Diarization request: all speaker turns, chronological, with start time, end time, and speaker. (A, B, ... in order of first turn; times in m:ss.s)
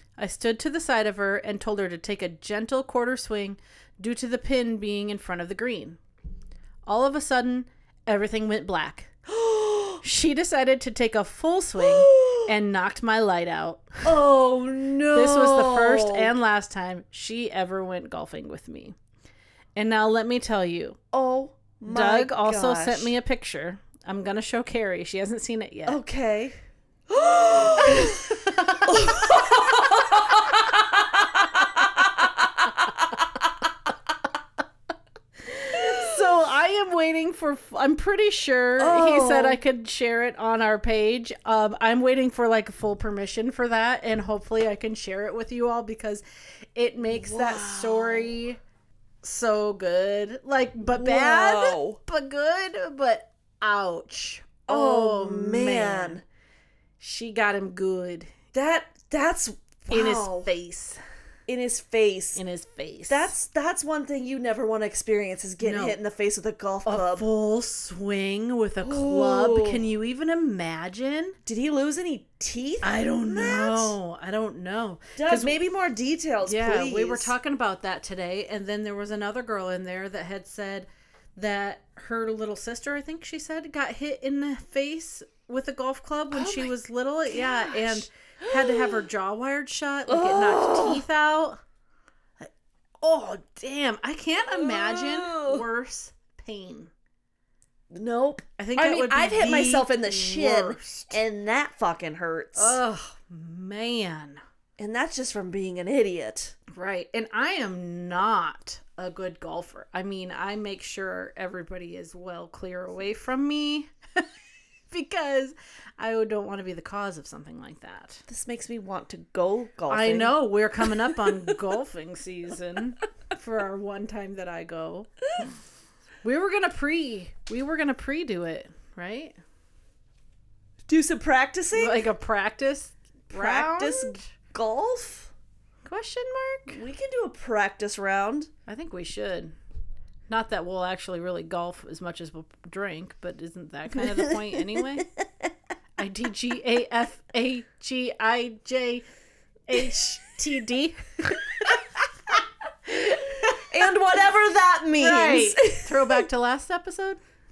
0:00.2-0:06.0 A
0:06.9-0:09.1 A
0:09.3-0:10.0 B
0:10.0-0:14.0 A
0:11.8-0:12.5 B
0:14.0-0:16.3 B
0:15.1-0:19.0 A
0:19.8-0:21.0 A
0:21.1-0:23.1 B
0:21.9-0:26.0 A
0:25.9-0:26.6 B
0:27.1-0:33.3 B
0:28.0-0:29.0 A
0:35.5-0:46.2 A
0:35.7-0:36.2 B
0:38.8-0:39.6 B
0:46.8-0:48.6 A
0:47.1-0:48.3 B
0:49.2-0:56.2 A
0:50.9-0:52.0 B
0:54.7-0:56.2 B
0:57.0-0:58.3 A
0:58.5-1:00.5 B
0:59.9-1:01.0 A
1:01.5-1:02.4 B
1:02.4-1:03.3 A
1:03.1-1:07.2 B
1:05.6-1:06.0 A
1:06.8-1:11.4 A
1:08.8-1:09.8 B
1:11.5-1:14.0 B
1:12.8-1:15.6 A
1:15.2-1:17.3 B
1:16.4-1:31.6 A
1:26.3-1:26.7 B
1:27.3-1:29.0 B
1:30.1-1:31.0 B
1:33.0-1:36.9 A
1:34.5-1:35.6 B
1:37.9-1:42.8 B
1:38.6-1:41.2 A
1:42.6-1:44.4 A
1:44.8-1:46.6 B
1:46.7-1:54.2 A
1:54.9-1:58.2 A
1:58.3-2:00.4 B
1:59.9-2:05.5 A
2:01.1-2:01.5 B
2:06.2-2:09.4 A
2:10.9-2:12.1 B
2:11.7-2:14.2 A
2:13.3-2:15.3 B
2:15.8-2:16.8 A
2:16.7-2:18.5 B
2:18.7-2:19.6 A
2:20.3-2:25.1 A
2:24.0-2:25.2 B
2:26.0-2:29.0 A
2:29.7-2:31.8 A
2:32.9-2:33.7 A
2:33.5-2:36.3 B
2:35.0-2:37.2 A